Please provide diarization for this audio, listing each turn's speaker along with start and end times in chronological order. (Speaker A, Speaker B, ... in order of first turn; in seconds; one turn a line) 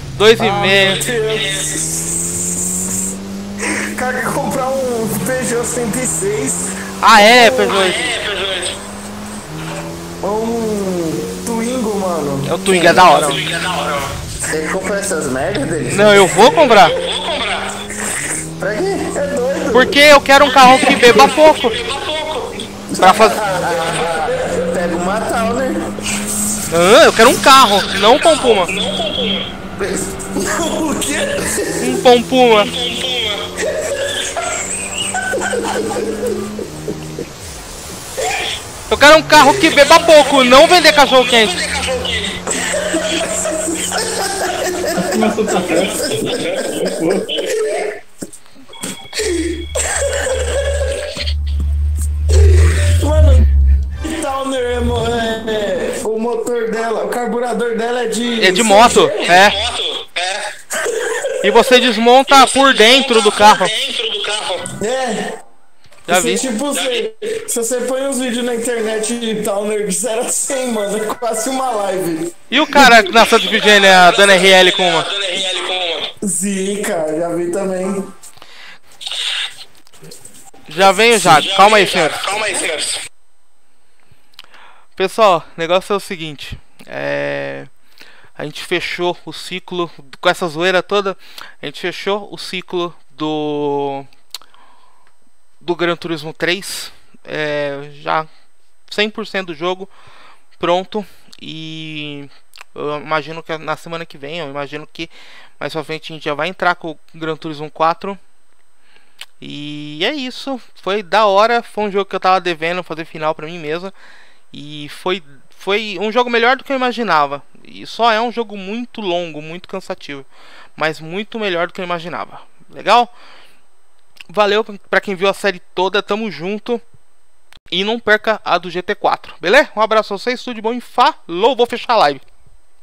Speaker A: 0.1-1.0
Speaker B: 0.3-2.5
Speaker C: 1.2-1.7
Speaker B: 3.9-7.7
Speaker A: 7.0-8.2
Speaker C: 7.7-8.7
Speaker B: 10.2-13.0
Speaker A: 12.5-13.4
Speaker D: 12.7-13.2
Speaker C: 13.1-14.1
Speaker D: 14.5-16.5
Speaker A: 15.9-16.9
Speaker C: 16.8-17.7
Speaker D: 18.6-19.1
Speaker B: 19.1-20.0
Speaker A: 19.7-21.8
Speaker C: 20.4-22.6
Speaker D: 22.9-25.9
Speaker A: 23.0-23.4
Speaker C: 23.4-24.0
Speaker B: 23.6-24.6
Speaker A: 26.7-28.7
Speaker C: 28.0-29.5
Speaker B: 30.4-31.4
Speaker A: 31.8-32.7
Speaker C: 32.5-33.4
Speaker B: 33.8-34.1
Speaker A: 38.9-41.5
Speaker C: 39.8-42.4
Speaker B: 42.7-43.7
Speaker E: 44.9-47.4
Speaker D: 45.8-46.3
Speaker C: 46.1-46.6
Speaker B: 49.4-50.6
Speaker B: 52.6-53.5
Speaker B: 54.0-59.4
Speaker A: 58.4-59.6
Speaker C: 59.1-60.5
Speaker B: 60.8-61.6
Speaker A: 61.4-63.7
Speaker C: 62.3-64.6
Speaker B: 64.8-65.3
Speaker A: 66.1-66.4
Speaker B: 66.1-72.3
Speaker C: 66.7-67.0
Speaker A: 72.5-75.1
Speaker C: 73.4-76.1
Speaker B: 76.2-78.1
Speaker A: 80.7-82.3
Speaker C: 81.4-83.0
Speaker A: 85.0-87.7
Speaker A: 88.4-94.1
Speaker A: 95.6-98.3
Speaker A: 98.9-99.9
Speaker A: 100.6-108.2
Speaker A: 109.4-113.9
Speaker A: 114.5-123.1
Speaker A: 124.3-126.8
Speaker A: 127.7-132.2